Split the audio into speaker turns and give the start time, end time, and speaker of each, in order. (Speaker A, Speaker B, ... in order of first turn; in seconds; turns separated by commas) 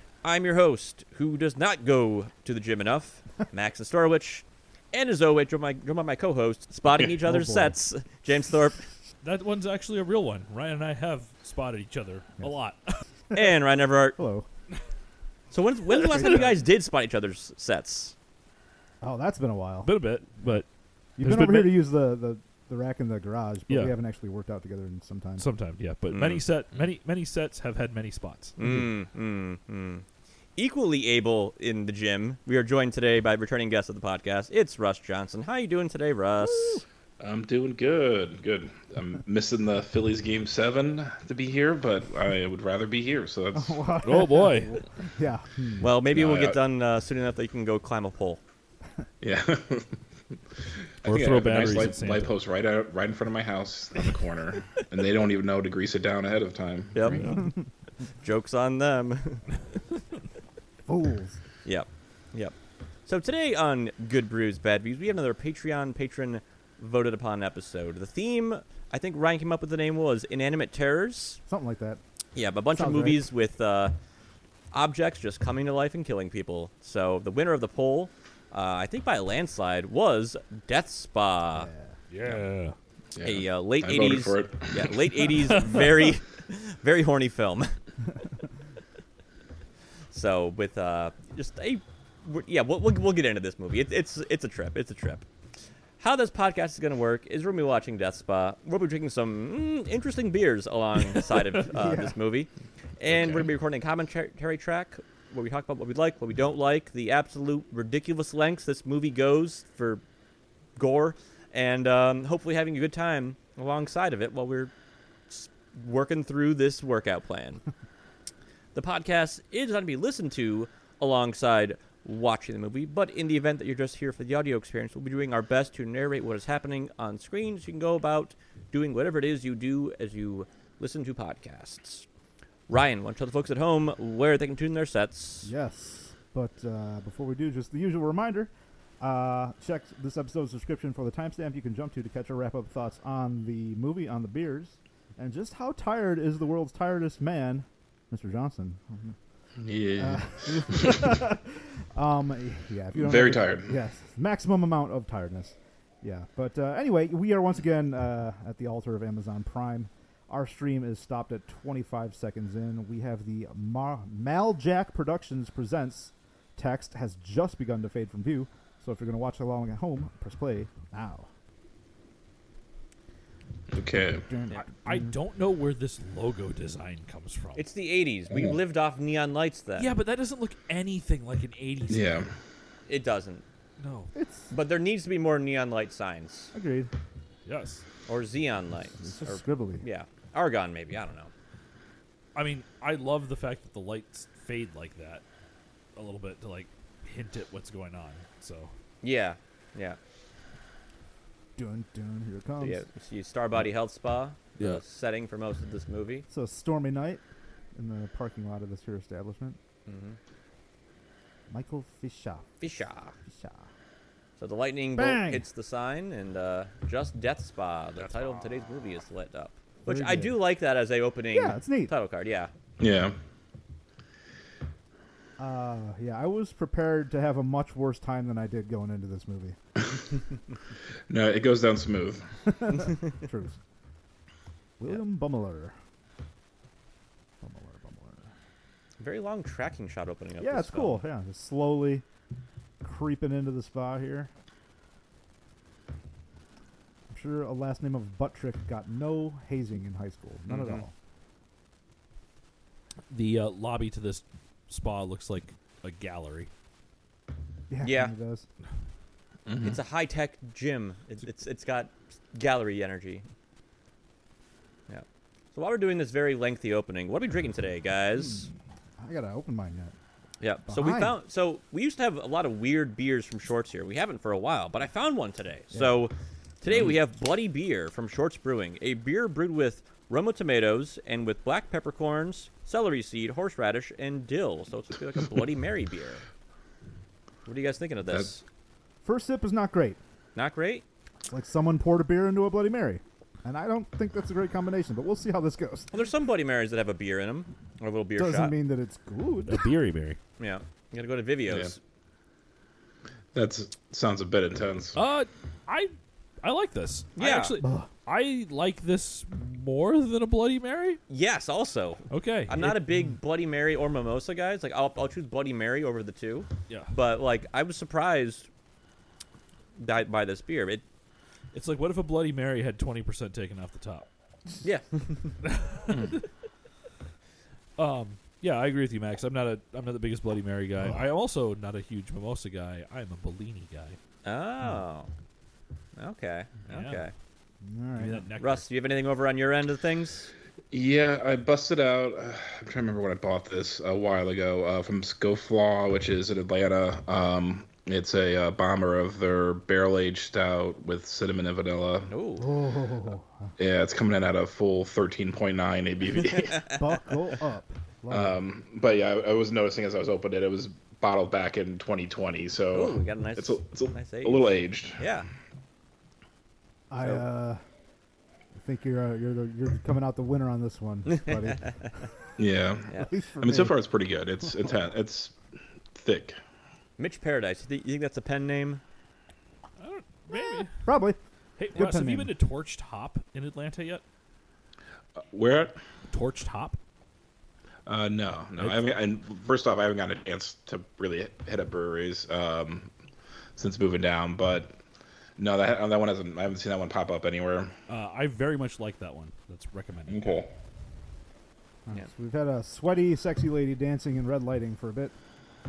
Speaker A: 0.2-8.8, Speaker B: 7.2-7.7, Speaker C: 9.2-13.0, Speaker A: 13.3-14.2, Speaker B: 14.2-14.5, Speaker A: 15.5-18.1, Speaker B: 16.1-16.6, Speaker B: 19.0-20.0, Speaker C: 19.8-20.7, Speaker B: 21.2-25.4, Speaker C: 21.2-21.8, Speaker C: 23.7-23.9, Speaker C: 25.4-28.6, Speaker D: 26.1-26.4, Speaker A: 28.6-30.1, Speaker B: 28.6-28.9, Speaker A: 30.6-36.8, Speaker B: 36.4-36.8, Speaker D: 37.2-43.9, Speaker B: 43.5-45.9, Speaker C: 44.0-44.8, Speaker A: 45.8-48.4, Speaker D: 46.0-46.6, Speaker D: 49.2-50.0, Speaker D: 51.0-57.4, Speaker C: 51.0-52.3, Speaker A: 56.9-57.4, Speaker C: 57.1-57.4, Speaker A: 58.2-59.4, Speaker B: 60.9-61.4, Speaker A: 61.6-62.5, Speaker A: 63.0-71.4, Speaker B: 71.5-72.0, Speaker A: 72.3-74.0, Speaker B: 72.7-73.3, Speaker A: 74.7-81.7, Speaker B: 81.5-81.9, Speaker C: 82.1-82.7, Speaker D: 83.1-85.2, Speaker A: 83.2-87.8, Speaker C: 85.4-86.1, Speaker A: 90.1-95.2, Speaker A: 96.0-102.5, Speaker B: 101.7-102.2, Speaker A: 103.0-110.0, Speaker D: 103.1-103.5, Speaker A: 110.8-114.7, Speaker A: 115.3-117.6, Speaker A: 118.7-132.1, Speaker A: 132.7-135.5, Speaker B: 135.4-149.2, Speaker D: 149.6-151.0, Speaker B: 150.0-171.3, Speaker D: 152.9-153.8, Speaker D: 173.7-174.3, Speaker B: 174.1-175.1, Speaker C: 174.5-177.6, Speaker A: 177.6-179.9, Speaker C: 179.8-182.2, Speaker D: 181.9-182.3, Speaker A: 182.9-183.4, Speaker C: 183.8-184.1, Speaker B: 184.1-184.5, Speaker A: 184.5-186.5, Speaker B: 186.5-186.9, Speaker C: 187.4-187.8, Speaker A: 188.1-191.3, Speaker B: 189.0-189.8, Speaker C: 192.3-195.2, Speaker C: 195.9-198.7, Speaker A: 199.0-200.0, Speaker B: 201.6-202.8, Speaker A: 202.6-206.2, Speaker B: 206.3-207.2, Speaker B: 207.7-209.6, Speaker A: 209.9-210.2, Speaker B: 211.5-212.4, Speaker A: 212.6-213.1, Speaker B: 213.3-213.7, Speaker A: 214.4-222.5, Speaker B: 214.9-215.4, Speaker C: 217.9-218.7, Speaker B: 219.8-220.4, Speaker B: 221.3-221.9, Speaker D: 222.8-223.2, Speaker B: 225.4-229.6, Speaker D: 231.1-232.3, Speaker B: 232.4-233.6, Speaker B: 234.8-235.7, Speaker B: 237.4-238.3, Speaker A: 239.0-241.0, Speaker B: 240.4-242.0, Speaker B: 242.8-244.3, Speaker B: 247.1-250.9, Speaker A: 250.5-250.8, Speaker C: 253.1-256.5, Speaker B: 257.7-258.5, Speaker A: 257.8-258.1, Speaker D: 259.5-259.8, Speaker A: 259.6-263.3, Speaker A: 264.9-268.5, Speaker B: 269.0-269.9, Speaker A: 270.4-286.2, Speaker B: 270.7-271.2, Speaker B: 275.7-276.0, Speaker A: 287.4-288.4, Speaker B: 289.0-290.0, Speaker A: 290.3-290.8, Speaker B: 291.3-295.9, Speaker A: 295.9-298.5, Speaker B: 298.2-299.7, Speaker C: 299.4-300.2, Speaker A: 300.4-301.8, Speaker D: 301.5-301.7, Speaker D: 303.3-305.0, Speaker C: 304.9-311.0, Speaker A: 307.1-307.5, Speaker B: 307.6-307.9, Speaker A: 311.1-318.5, Speaker C: 312.1-312.8, Speaker A: 319.8-320.8, Speaker C: 321.5-324.1, Speaker A: 324.6-325.4, Speaker C: 325.4-326.2, Speaker C: 327.8-334.0, Speaker A: 334.2-335.1, Speaker A: 335.9-337.1, Speaker C: 336.7-337.0, Speaker B: 337.6-338.2, Speaker C: 338.0-338.7, Speaker A: 338.4-340.3, Speaker D: 340.7-352.1, Speaker A: 352.1-352.5, Speaker B: 352.4-353.5, Speaker D: 353.6-356.7, Speaker B: 356.7-358.4, Speaker D: 358.1-365.0, Speaker A: 362.7-365.3, Speaker B: 366.9-367.6, Speaker A: 367.0-367.2, Speaker B: 368.5-371.7, Speaker A: 371.1-371.6, Speaker D: 372.4-375.4, Speaker B: 373.1-373.7, Speaker D: 375.9-376.4, Speaker A: 377.0-378.8, Speaker C: 379.8-380.7, Speaker B: 380.3-381.2, Speaker C: 381.6-384.0, Speaker B: 381.7-382.3, Speaker D: 385.2-385.8, Speaker C: 386.1-386.8, Speaker D: 387.9-392.9, Speaker D: 393.6-394.8, Speaker D: 395.4-397.7, Speaker C: 397.9-400.4, Speaker D: 400.1-400.5, Speaker B: 401.9-405.1